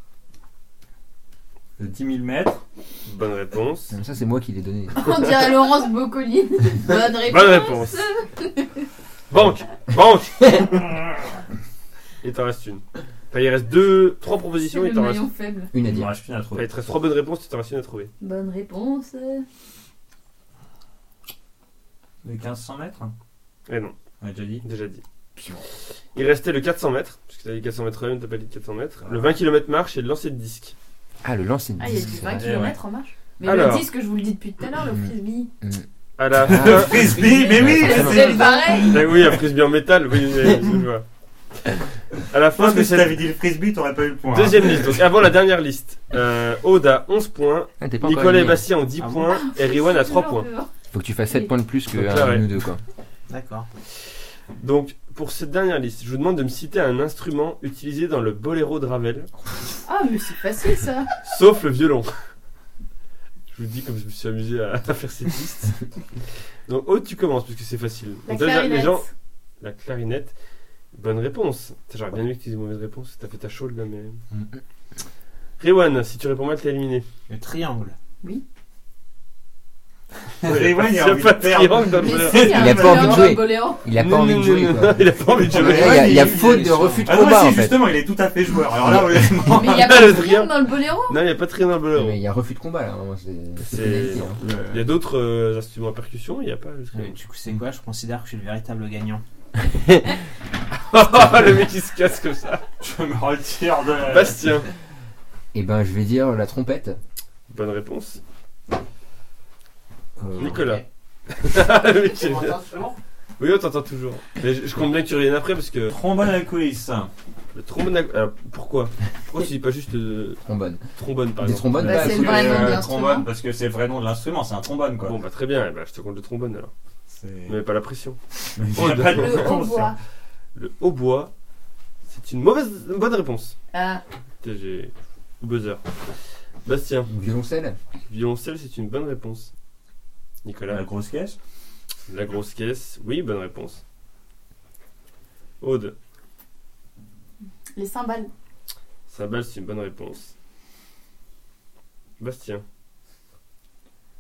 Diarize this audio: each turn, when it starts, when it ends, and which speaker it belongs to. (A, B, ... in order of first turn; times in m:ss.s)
0:01.8-0:02.6 A
0:03.1-0:03.9 B
0:03.9-0:05.1 C
0:05.0-0:08.8 D
0:06.9-0:08.0 B
0:09.3-0:10.9 B
0:12.2-0:15.3 B
0:14.6-0:15.7 D
0:15.7-0:16.1 C
0:15.8-0:16.7 A
0:16.5-0:18.1 B
0:18.2-0:19.4 D
0:22.2-0:23.1 A
0:23.7-0:24.0 B
0:24.2-0:24.6 A
0:24.6-0:25.0 B
0:26.1-0:30.8 B
0:31.2-0:32.7 C
0:31.8-0:35.5 D
0:32.4-0:32.8 A
0:33.4-0:33.9 B
0:35.6-0:38.5 C
0:36.2-0:37.2 B
0:36.4-0:38.9 A
0:37.1-0:39.1 D
0:38.8-0:41.0 B
0:42.3-0:43.3 B
0:42.5-0:45.0 A
0:44.3-0:50.5 B
0:47.8-0:48.6 C
0:49.0-0:49.4 E
0:49.3-0:50.7 D
0:50.9-0:52.8 C
0:51.9-0:52.5 B
0:53.3-0:53.7 E
0:54.6-0:59.3 B
0:59.8-1:01.1 D
1:01.2-1:02.1 B
1:03.5-1:05.8 B
1:06.7-1:09.1 B
1:08.3-1:09.1 D
1:09.6-1:10.3 B
1:10.9-1:14.2 B
1:15.6-1:17.0 B
1:17.3-1:18.0 E
1:20.4-1:23.4 A
1:20.4-1:22.6 B
1:22.0-1:23.9 D
1:22.4-1:27.8 C
1:23.9-1:26.3 B
1:25.2-1:30.0 A
1:25.6-1:27.2 E
1:29.4-1:31.2 D
1:29.7-1:32.2 B
1:31.9-1:34.4 C
1:33.6-1:37.2 B
1:34.3-1:34.9 A
1:36.9-1:39.2 E
1:40.9-1:42.6 B
1:42.8-1:44.5 A
1:44.1-1:44.7 B
1:45.5-1:47.0 C
1:47.5-1:48.2 B
1:50.2-1:50.8 A
1:50.4-1:52.6 B
1:50.5-1:50.8 E
1:52.1-1:53.0 E
1:53.4-1:55.9 B
1:55.9-1:57.1 A
1:57.6-2:00.4 B
2:00.4-2:00.8 C
2:01.0-2:02.1 B
2:01.4-2:02.8 C
2:01.7-2:05.2 A
2:01.8-2:03.3 D
2:05.0-2:06.7 B
2:07.1-2:07.6 A
2:07.5-2:09.6 B
2:08.5-2:10.0 A
2:09.1-2:10.0 D
2:10.6-2:11.3 B
2:12.1-2:13.6 B
2:13.7-2:14.0 D
2:14.4-2:15.8 B
2:16.6-2:17.1 B
2:17.1-2:17.8 C
2:18.1-2:19.5 B
2:20.4-2:20.8 B
2:20.7-2:21.4 A
2:22.1-2:23.8 B
2:25.6-2:26.0 B
2:27.8-2:28.3 D
2:29.1-2:30.3 B
2:32.2-2:32.6 B